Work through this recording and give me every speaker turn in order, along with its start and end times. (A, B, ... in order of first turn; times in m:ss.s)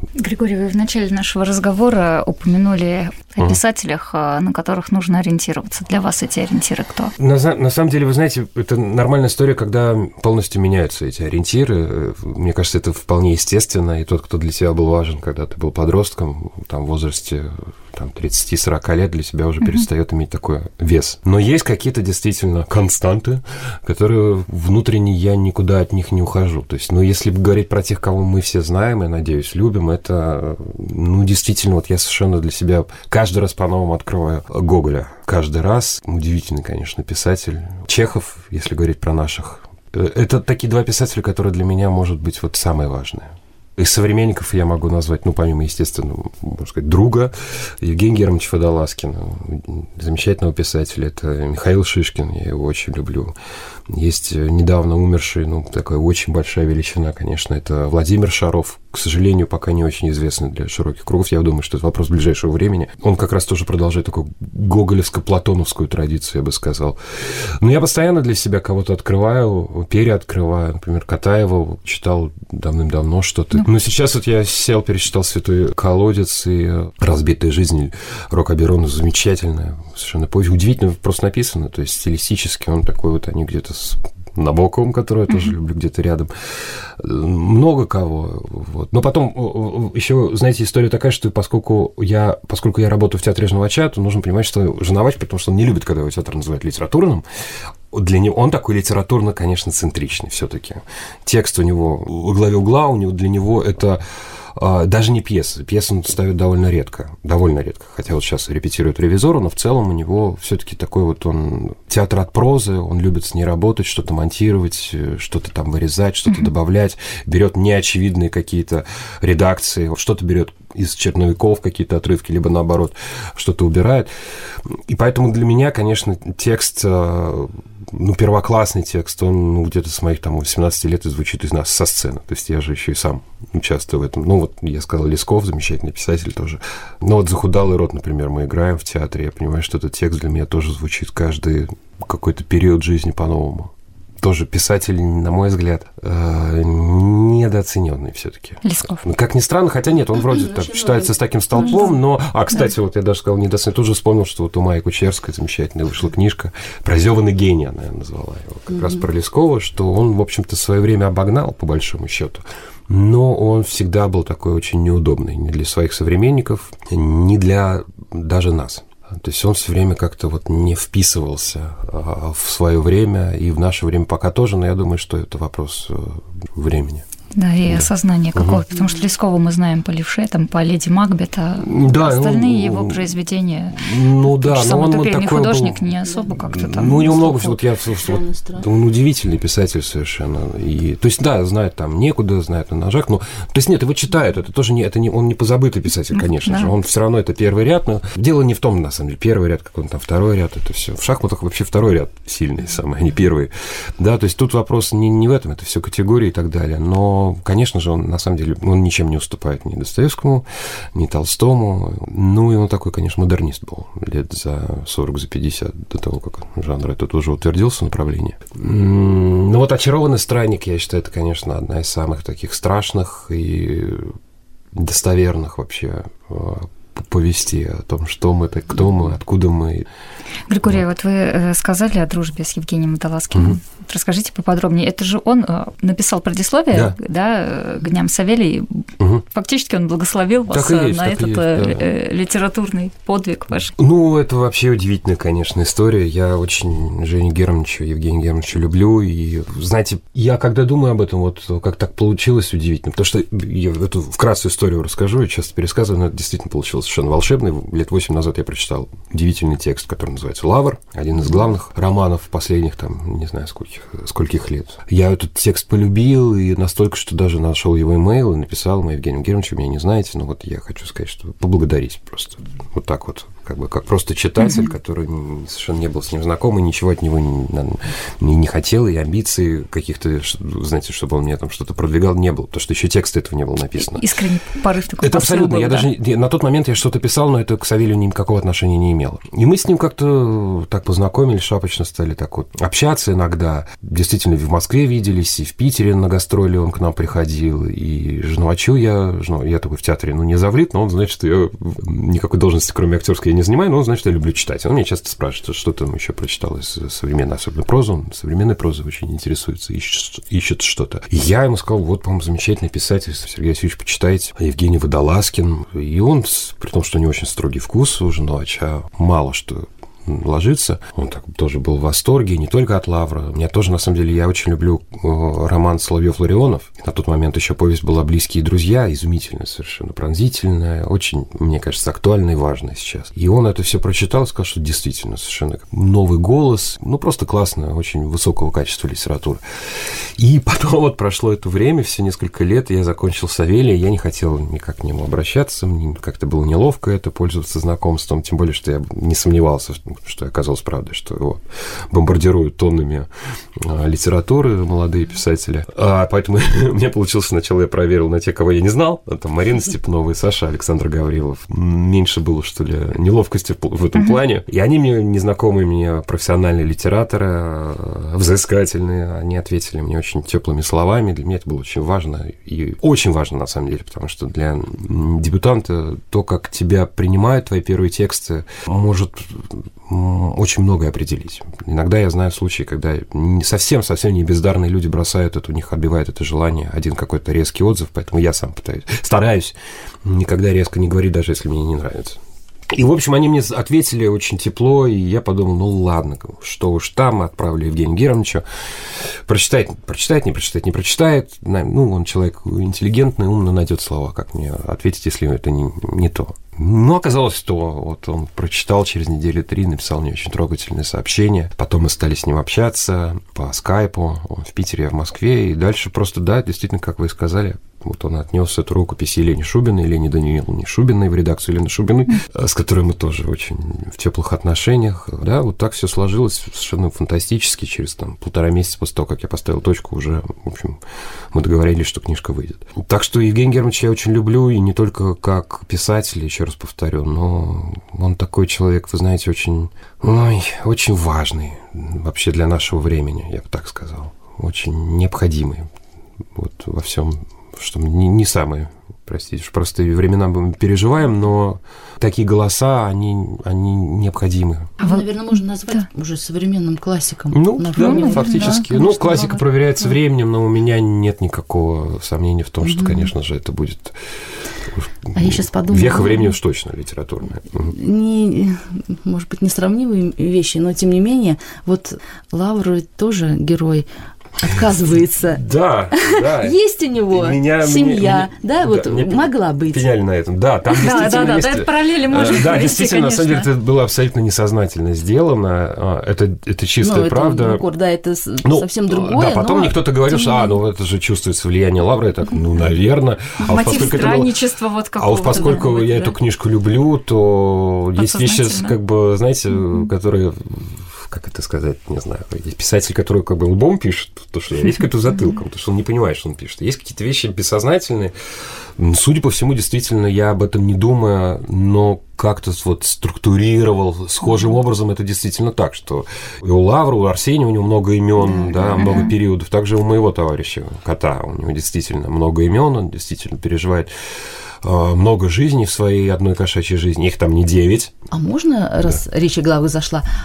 0:00.2-0:07.1 A
0:07.2-0:53.4 B
0:53.9-1:37.2 B
1:37.9-1:44.0 B
1:44.6-2:04.1 B
2:04.6-2:57.0 B
2:28.6-2:29.0 A
2:30.2-2:31.1 C
2:57.4-3:07.6 A
2:57.7-2:58.6 B
3:01.6-3:03.1 B
3:03.8-3:05.9 B
3:06.0-3:08.6 C
3:06.4-3:44.2 B
3:16.4-3:16.7 A
3:44.7-3:49.9 B
3:50.5-4:03.8 A
4:00.5-4:01.8 B
4:03.8-4:44.1 B
4:43.8-4:45.9 A
4:45.0-6:32.2 B
6:32.7-6:38.4 B
6:39.0-7:10.8 B
7:11.3-7:25.7 B
7:26.3-7:34.7 B
7:34.8-7:35.0 A
7:34.8-7:39.4 C
7:37.3-7:44.0 B
7:37.8-7:38.7 A
7:42.6-7:43.1 C
7:44.7-7:47.8 B
7:45.2-7:46.3 C
7:47.7-7:53.9 C
7:54.4-7:59.8 C
7:55.4-7:56.6 B
7:57.1-8:07.6 B
8:00.7-8:03.5 A
8:06.8-8:10.6 C
8:08.4-8:14.3 B
8:13.5-8:16.2 A
8:15.0-8:28.1 B
8:15.3-8:15.6 C
8:18.0-8:18.8 A
8:28.8-8:43.9 B
8:38.3-8:39.1 C
8:44.6-8:47.9 B
8:48.1-8:50.1 C